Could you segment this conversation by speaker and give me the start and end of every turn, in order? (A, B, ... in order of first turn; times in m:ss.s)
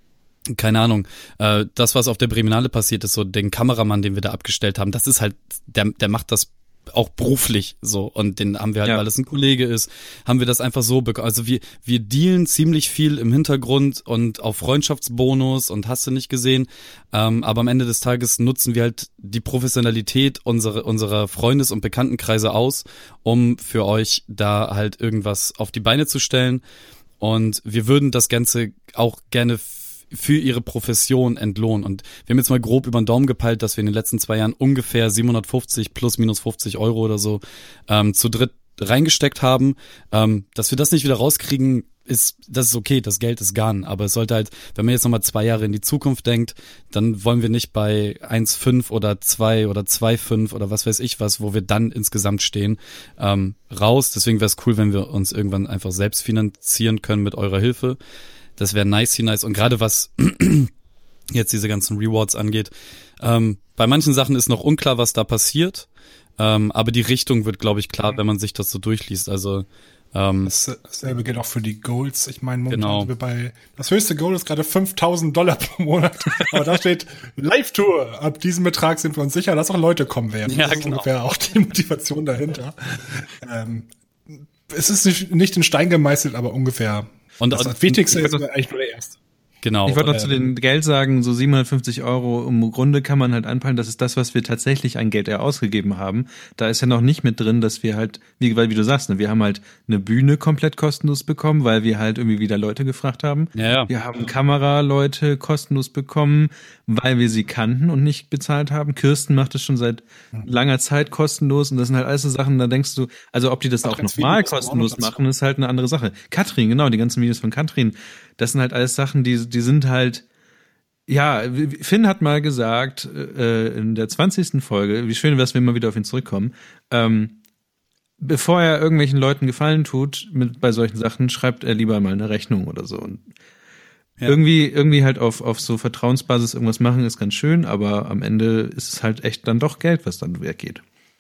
0:00.5-0:26.6 A
0:27.2-0:58.0 A
0:58.6-1:00.7 A
1:01.3-1:05.9 A
1:06.4-1:10.5 A
1:10.4-1:29.2 B
1:12.7-1:13.1 A
1:20.4-1:21.1 A
1:27.4-1:28.3 A
1:29.6-1:30.1 A
1:29.8-2:00.2 C
1:30.0-1:30.4 B
1:43.5-1:43.9 A
1:53.8-1:55.2 B
2:01.1-2:07.4 C
2:08.2-2:13.2 C
2:14.2-2:20.8 C